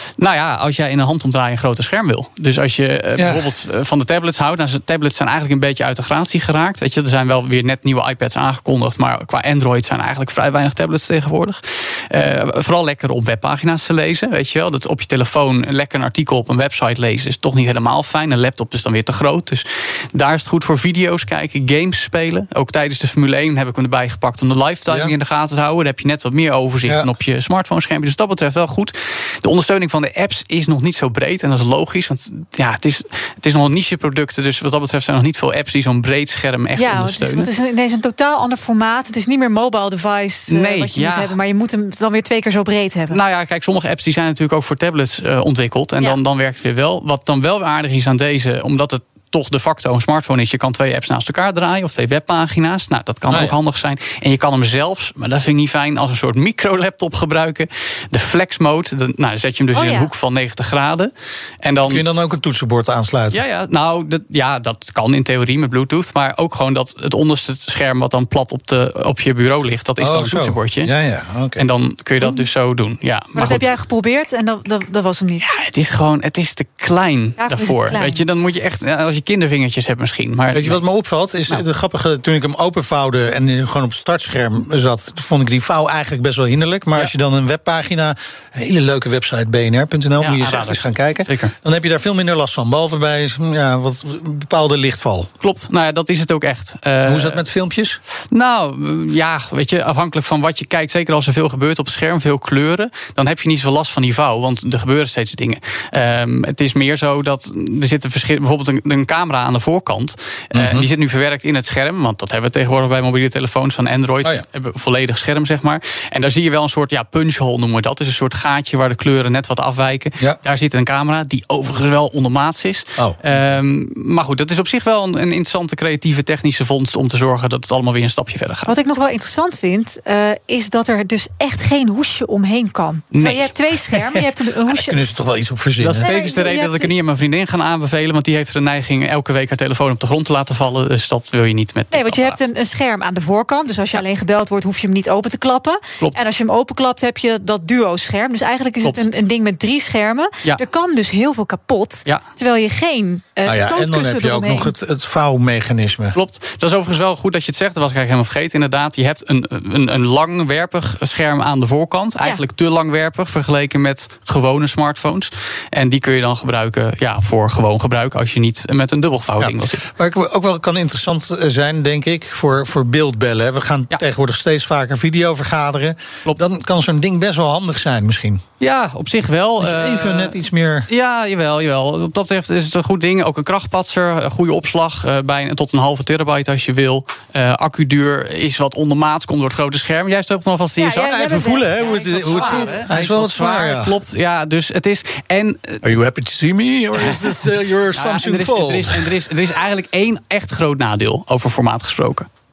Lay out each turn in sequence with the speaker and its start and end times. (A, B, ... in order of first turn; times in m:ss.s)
0:00.2-0:37.5 A
0:03.2-0:03.5 B
0:26.8-0:27.1 B
0:36.8-0:43.2 C
0:40.5-0:41.3 A
0:43.1-1:02.0 A
0:53.3-0:53.6 B
0:59.7-1:00.1 C
1:01.8-1:03.4 B
1:03.3-1:10.9 A
1:10.0-1:11.7 B
1:11.6-1:13.7 A
1:13.4-1:15.4 C
1:15.4-1:20.8 A
1:17.4-1:18.2 C
1:20.5-1:35.3 B
1:30.2-1:31.5 A
1:35.4-1:37.4 A
1:37.0-1:38.0 B
1:38.3-2:08.8 A
1:50.5-1:50.9 B
2:08.7-2:15.1 C
2:13.1-2:14.2 A
2:14.7-2:16.1 B
2:15.8-2:22.4 A
2:16.0-2:16.9 C
2:21.9-2:34.7 C
2:33.4-2:36.2 B
2:36.1-2:49.9 A
2:49.4-2:58.4 B
2:58.6-3:11.3 A
2:59.6-3:00.9 B
3:10.8-3:12.8 C
3:11.0-3:14.0 B
3:11.8-3:15.8 A
3:15.8-3:19.2 B
3:17.9-3:22.3 A